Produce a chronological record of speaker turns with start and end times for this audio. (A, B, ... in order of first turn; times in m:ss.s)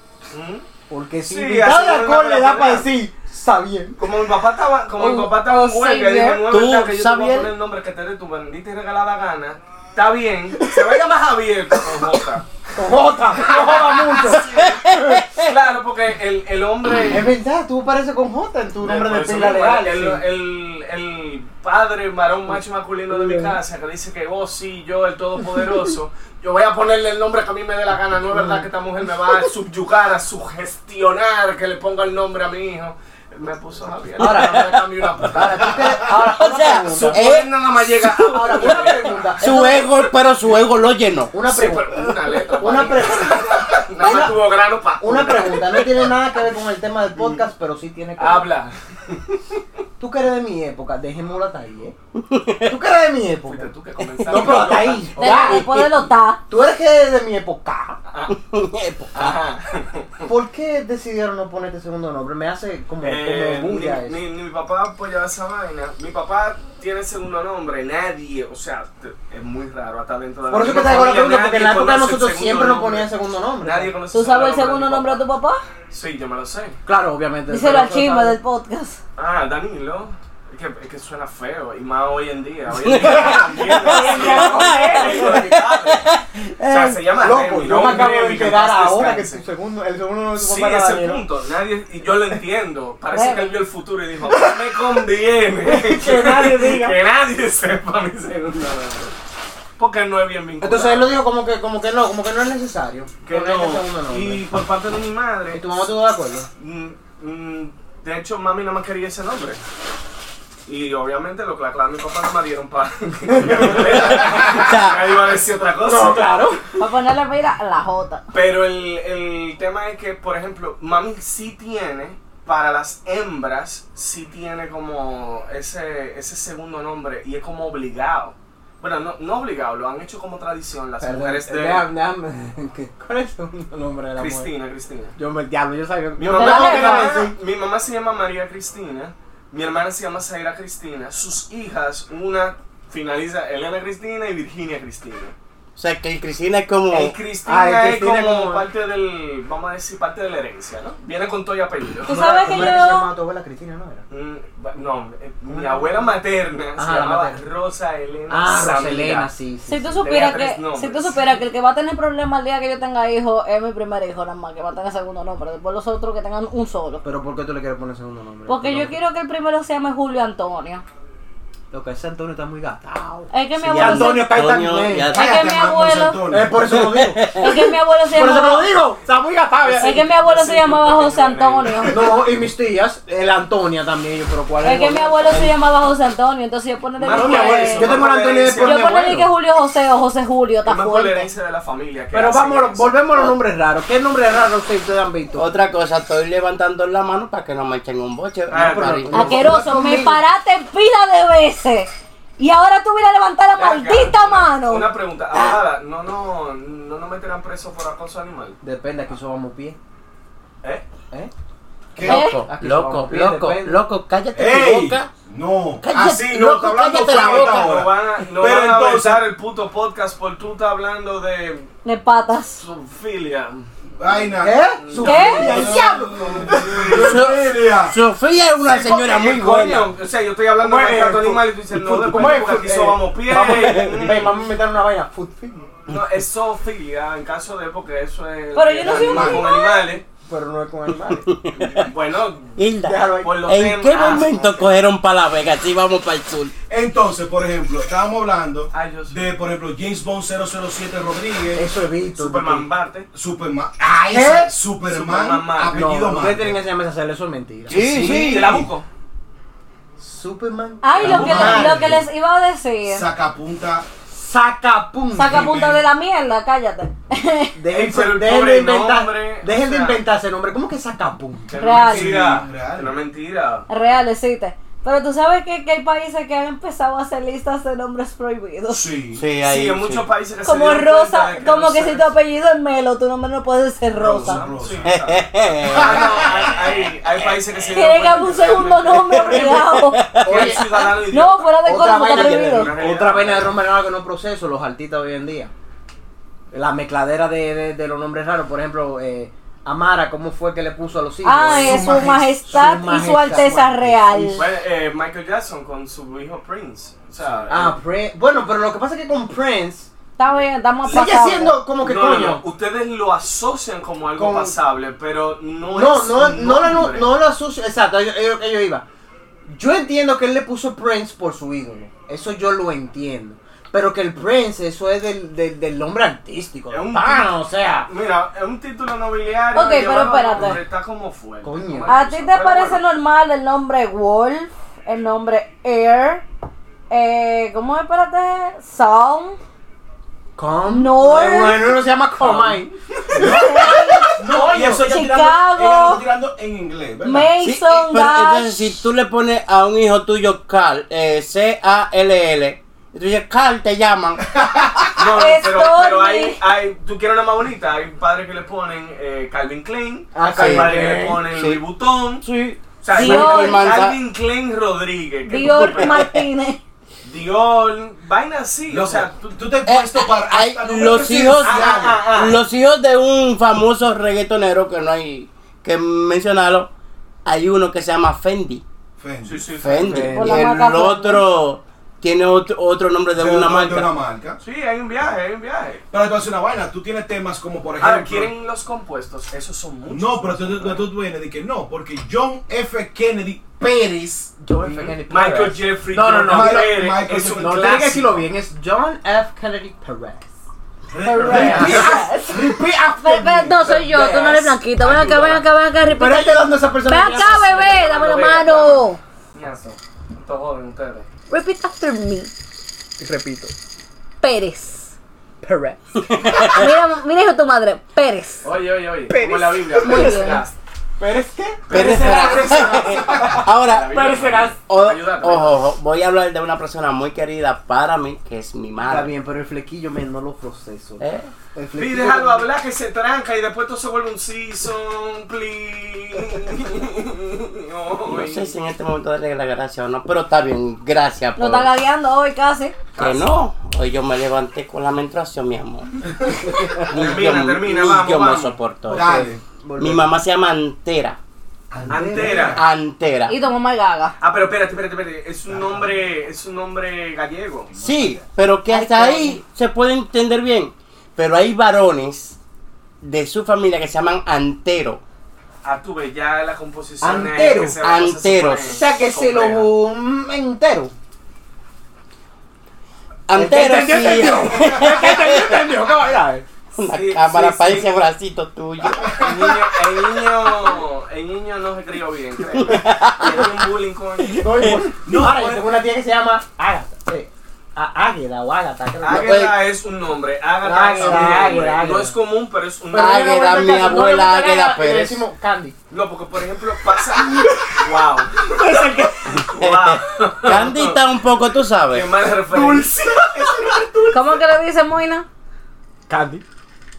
0:00.3-0:00.7 A
0:00.9-0:04.0 B
0:01.2-0:02.9 A
0:04.0-0:12.4 A
0:05.0-0:06.4 C
0:06.4-0:07.5 D
0:10.6-0:10.9 B
0:12.7-0:15.2 B
0:13.3-0:14.8 A
0:14.3-0:15.5 D
0:15.4-0:17.3 A
0:17.1-0:20.2 B
0:18.8-0:35.8 A
0:23.1-0:23.6 B
0:28.3-0:28.7 B
0:34.2-0:34.7 B
0:34.2-0:34.8 D
0:35.2-0:37.2 B
0:36.1-0:41.3 D
0:36.8-0:39.5 A
0:38.2-0:39.9 B
0:41.3-0:44.4 B
0:41.4-0:46.1 A
0:45.0-0:48.5 B
0:48.2-0:49.6 A
0:50.0-0:52.0 B
0:52.1-0:52.8 D
0:52.6-0:53.7 B
0:53.4-0:55.7 A
0:54.2-0:54.7 D
0:54.2-0:55.6 B
0:55.2-0:56.4 C
0:55.5-0:56.0 D
0:56.5-0:58.0 B
0:58.1-0:58.3 A
0:58.3-0:59.4 D
0:59.1-1:00.3 A
1:00.2-1:04.2 B
1:03.0-1:15.2 A
1:10.5-1:13.9 B
1:14.1-1:15.6 C
1:15.9-1:16.8 A
1:16.8-1:18.4 B
1:17.5-1:19.0 C
1:19.2-1:26.1 A
1:22.8-1:25.6 B
1:22.8-1:27.1 D
1:26.6-1:29.4 A
1:27.2-1:31.2 B
1:30.3-1:39.1 A
1:33.1-1:33.5 C
1:34.3-1:34.7 B
1:35.6-1:37.0 B
1:39.8-1:41.2 A
1:40.6-1:44.4 B
1:43.2-1:45.9 A
1:45.5-1:46.5 B
1:46.6-1:49.6 A
1:50.6-1:56.4 A
1:53.3-1:54.4 B
1:53.9-1:55.0 D
1:54.0-1:54.7 E
1:55.8-1:56.6 B
1:56.8-1:58.2 C
1:58.3-2:11.8 A
2:11.0-2:14.5 B
2:14.2-2:15.1 A
2:15.2-2:17.3 B
2:16.2-2:25.3 A
2:16.3-2:17.1 C
2:25.8-2:27.2 D
2:26.9-2:32.8 A
2:27.4-2:28.6 B
2:32.1-2:33.1 C
2:32.1-2:34.0 B
2:34.1-2:39.3 A
2:35.5-2:36.2 B
2:36.8-2:37.4 B
2:38.3-2:40.0 B
2:39.7-2:47.0 C
2:40.0-2:41.3 A
2:47.0-2:48.9 B
2:48.5-2:50.8 C
2:51.7-2:55.1 B
2:53.3-2:54.3 C
2:53.6-2:55.2 D
2:55.1-2:56.6 E
2:55.1-2:56.2 C
2:56.3-3:00.0 B
2:56.7-2:57.6 D
2:57.4-2:58.7 C
2:59.6-3:02.2 A
2:59.8-3:02.0 C
3:01.9-3:05.5 B
3:04.6-3:08.0 C
3:07.0-3:08.9 A
3:07.1-3:09.3 B
3:08.6-3:11.3 C
3:10.6-3:13.0 A
3:12.1-3:15.5 B
3:15.3-3:19.6 D
3:18.5-3:19.1 A
3:18.5-3:20.2 B
3:19.1-3:24.9 C
3:23.6-3:28.6 A
3:25.3-3:25.6 D
3:28.6-3:29.8 B
3:31.9-3:32.3 E
3:32.0-3:35.1 D
3:32.0-3:32.4 C
3:32.1-3:33.8 B
3:34.3-3:39.2 E
3:35.8-3:37.8 D
3:37.1-3:41.7 A
3:41.8-3:42.6 C
3:42.6-3:43.6 A
3:44.0-3:48.0 E
3:44.4-3:47.1 B
3:44.7-3:47.2 A
3:45.0-3:45.6 C
3:46.9-3:49.9 D
3:48.6-3:54.4 A
3:50.6-3:55.7 B
3:53.4-3:54.2 D
3:55.9-4:00.0 A
3:58.5-3:59.8 C
3:58.8-3:59.5 E
4:00.2-4:01.3 B
4:01.1-4:01.9 D
4:01.6-4:02.6 A
4:02.6-4:06.5 D
4:02.8-4:04.5 B
4:03.2-4:04.6 A
4:06.7-4:11.6 E
4:08.7-4:09.3 A
4:11.5-4:12.7 B
4:12.1-4:13.1 A
4:13.1-4:16.6 E
4:14.1-4:14.5 B
4:14.8-4:16.0 A
4:15.7-4:18.4 B
4:17.7-4:18.6 D
4:17.7-4:18.7 E
4:17.9-4:18.8 A
4:20.0-4:22.0 B
4:20.8-4:23.1 C
4:21.0-4:21.7 A
4:21.0-4:22.0 E
4:22.8-4:23.9 E
4:24.1-4:25.5 B
4:25.1-4:27.6 C
4:25.2-4:25.8 E
4:27.6-4:31.5 B
4:27.7-4:30.0 A
4:31.5-4:33.7 A
4:31.6-4:32.2 C
4:31.8-4:32.9 E
4:33.7-4:38.9 C
4:38.7-4:39.2 E
4:39.1-4:40.1 D
4:39.4-4:42.1 A
4:40.4-4:44.5 C
4:43.9-4:44.9 E
4:44.2-4:53.6 A
4:44.8-4:46.4 D
4:45.6-4:46.6 E
4:47.7-4:50.0 C
4:49.1-4:50.7 D
4:50.2-4:50.6 B
4:51.0-4:52.7 C
4:51.6-4:55.5 B
4:56.5-5:04.5 B
5:01.2-5:04.5 C
5:01.5-5:02.9 E
5:04.3-5:07.8 A
5:07.5-5:09.9 B
5:10.2-5:11.6 C
5:10.8-5:12.4 B
5:11.8-5:17.1 A
5:14.1-5:14.5 B
5:15.7-5:18.8 B
5:19.5-5:27.9 B
5:26.7-5:27.3 A
5:27.9-5:32.8 A
5:29.5-5:30.6 C
5:31.4-5:31.9 B
5:31.9-5:36.2 C
5:36.9-5:39.4 C
5:40.4-5:44.8 B
5:40.7-5:41.7 C
5:42.2-5:42.7 A
5:43.1-5:47.3 E
5:43.2-5:46.0 C
5:47.0-5:48.6 C
5:47.4-5:54.2 D
5:54.2-5:55.0 E
5:55.0-6:02.2 A
5:55.0-5:56.4 C
6:00.1-6:01.2 B
6:00.3-6:01.6 D
6:02.2-6:04.0 D
6:02.8-6:06.0 A
6:02.9-6:03.6 C
6:05.3-6:06.6 C
6:05.4-6:06.2 D
6:07.0-6:09.4 A
6:08.7-6:12.1 E
6:09.6-6:16.7 D
6:11.4-6:12.2 A
6:11.4-6:12.4 B
6:17.2-6:18.6 D
6:19.0-6:19.5 E
6:19.2-6:20.2 A
6:19.6-6:23.9 D
6:19.7-6:20.6 B
6:20.2-6:21.2 C
6:23.1-6:24.4 E
6:24.4-6:25.8 A
6:25.9-6:28.3 E
6:27.8-6:30.8 A
6:29.9-6:34.3 E
6:34.4-6:40.3 B
6:34.6-6:38.1 A
6:36.2-6:38.2 E
6:40.9-6:43.6 E
6:41.0-6:42.4 C
6:41.0-6:42.7 B
6:41.3-6:41.9 A
6:42.9-6:49.0 C
6:43.5-6:44.5 B
6:43.9-6:45.4 A
6:45.9-6:47.8 B
6:47.3-6:51.1 A
6:51.3-6:52.3 C
6:53.0-6:53.5 B
6:54.2-6:54.9 C
6:55.4-6:56.3 B
6:56.0-6:56.7 D
6:56.4-6:58.5 C
6:58.4-7:00.5 A
6:59.1-7:00.4 B
6:59.8-7:00.4 C
7:01.0-7:04.5 B
7:01.7-7:09.1 D
7:01.7-7:03.4 E
7:02.0-7:02.3 A
7:03.2-7:05.6 A
7:08.8-7:12.4 B
7:11.0-7:11.3 D
7:11.7-7:18.5 A
7:18.1-7:21.7 D
7:21.4-7:22.8 C
7:22.9-7:23.3 A
7:23.0-7:29.3 D
7:26.2-7:26.6 E
7:26.8-7:28.6 A
7:28.9-7:29.4 E
7:28.9-7:30.1 B
7:29.8-7:31.2 D
7:31.7-7:32.7 E
7:31.9-7:32.6 B
7:31.9-7:32.6 A
7:32.5-7:33.4 D
7:33.3-7:34.2 C
7:34.2-7:37.7 A
7:35.5-7:35.9 E
7:37.7-7:38.2 E
7:37.8-7:42.4 D
7:38.7-7:39.4 B
7:43.0-7:45.0 D
7:45.6-7:49.7 A
7:47.0-7:47.8 B
7:47.8-7:48.8 D
7:48.6-7:50.9 B
7:53.3-7:55.8 D
7:53.3-7:56.4 B
7:54.6-7:55.0 E
7:56.8-7:59.1 D
7:56.8-7:58.0 A
7:59.0-7:59.8 E
7:59.2-8:04.4 A
8:02.5-8:03.5 D
8:04.2-8:04.8 D
8:04.4-8:09.4 B
8:05.0-8:05.6 E
8:09.0-8:13.9 A
8:09.0-8:09.5 D
8:10.6-8:12.2 B
8:11.0-8:11.3 D
8:11.1-8:11.7 E
8:12.9-8:15.2 D
8:12.9-8:15.7 B
8:15.9-8:21.0 A
8:17.1-8:17.7 B
8:18.5-8:19.4 B
8:19.5-8:22.1 D
8:21.9-8:23.6 A
8:22.5-8:24.4 E
8:24.1-8:25.2 C
8:26.1-8:26.4 B